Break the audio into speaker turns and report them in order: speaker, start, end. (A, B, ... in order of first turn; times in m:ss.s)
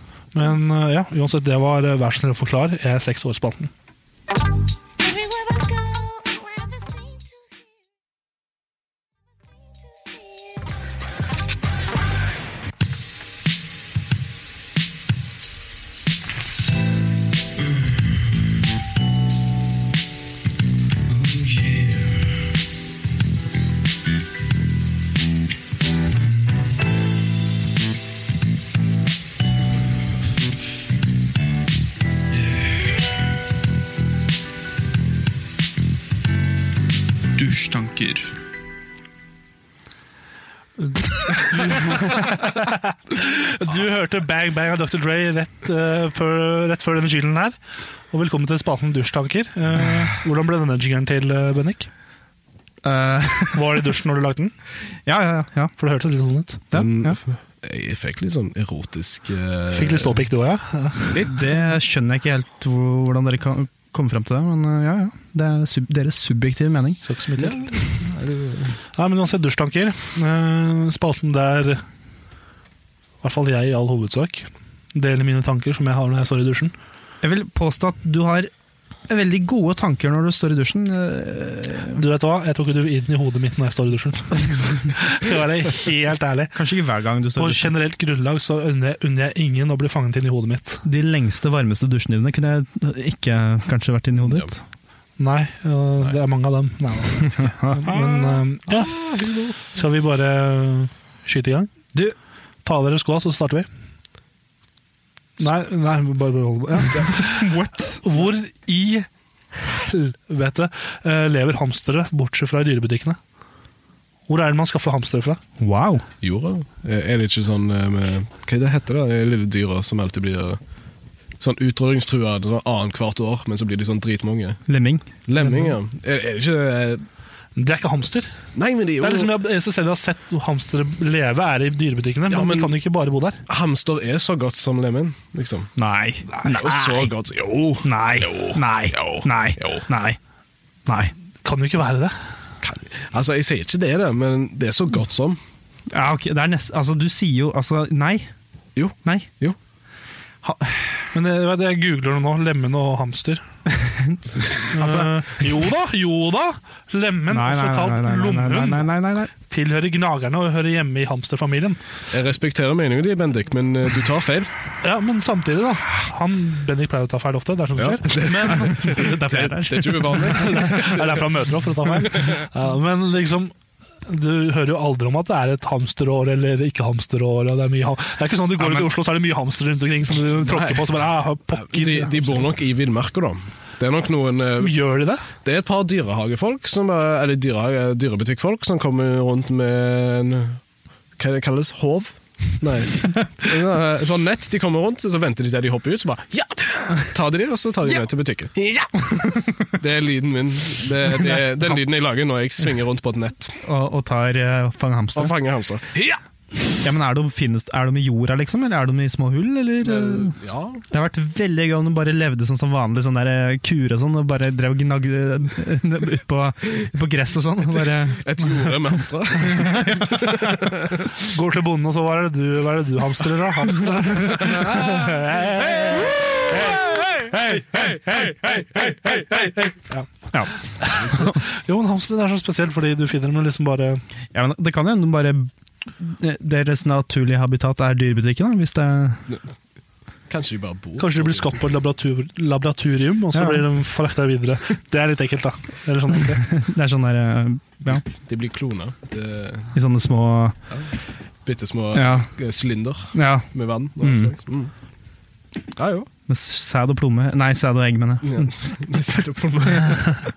0:00.3-0:03.7 A
0:37.4-0:38.2 B
0:40.8-0:47.6 A
0:48.1-0:51.9 A
0:52.8-0:53.9 B
0:53.5-0:54.5 A
0:55.1-0:55.7 B
0:55.8-0:56.6 A
0:56.7-0:57.2 B
0:56.7-1:00.2 C
0:59.7-1:01.2 A
1:01.1-1:01.5 C
1:01.2-1:07.0 B
1:07.0-1:07.9 A
1:07.4-1:08.8 C
1:09.0-1:11.8 A
1:13.2-1:16.7 A
1:17.2-1:18.5 B
1:19.1-1:22.0 B
1:21.9-1:26.5 A
1:26.5-1:27.7 B
1:27.4-1:30.8 A
1:30.8-1:34.6 B
1:34.3-1:34.5 C
1:35.2-1:38.9 A
1:37.4-1:37.8 B
1:37.9-1:39.6 C
1:39.7-1:41.7 A
1:42.6-1:43.7 A
1:45.4-1:49.1 A
1:47.0-1:48.0 B
1:49.6-1:53.2 A
1:54.3-1:55.4 A
1:55.6-1:56.0 B
1:56.2-2:00.6 C
2:01.4-2:04.6 C
2:04.7-2:05.1 B
2:05.3-2:07.0 C
2:07.6-2:08.3 A
2:08.6-2:09.3 C
2:09.0-2:13.4 A
2:12.3-2:12.8 C
2:13.5-2:15.7 C
2:15.8-2:17.1 B
2:16.4-2:19.9 C
2:17.8-2:20.2 B
2:20.9-2:21.1 B
2:21.4-2:22.2 A
2:22.6-2:25.4 C
2:25.9-2:28.3 B
2:28.8-2:29.6 C
2:29.0-2:29.4 B
2:30.4-2:31.1 B
2:31.1-2:33.4 A
2:33.7-2:35.1 B
2:34.7-2:41.8 A
2:37.3-2:39.3 B
2:42.1-2:44.5 C
2:44.8-2:49.1 A
2:47.8-2:51.2 C
2:48.5-2:50.9 B
2:50.3-2:53.5 A
2:52.1-2:52.4 C
2:54.1-3:02.4 A
3:00.4-3:00.9 C
3:01.5-3:04.8 C
3:04.6-3:05.3 A
3:05.4-3:10.6 C
3:11.2-3:23.6 C
3:23.6-3:25.3 B
3:25.2-3:26.2 C
3:26.8-3:30.4 B
3:29.8-3:30.8 C
3:30.9-3:38.9 B
3:38.0-3:41.1 C
3:39.4-3:40.3 B
3:41.2-3:48.4 A
3:47.6-3:49.5 C
3:50.3-3:51.4 B
3:50.8-3:54.0 A
3:54.3-3:59.2 B
4:00.3-4:01.6 C
4:01.0-4:06.4 A
4:03.3-4:03.7 B
4:06.2-4:08.0 B
4:07.9-4:09.8 C
4:09.8-4:10.6 B
4:11.4-4:14.7 C
4:12.0-4:12.3 B
4:13.1-4:14.3 B
4:15.8-4:16.1 C
4:16.3-4:18.6 B
4:18.2-4:20.2 C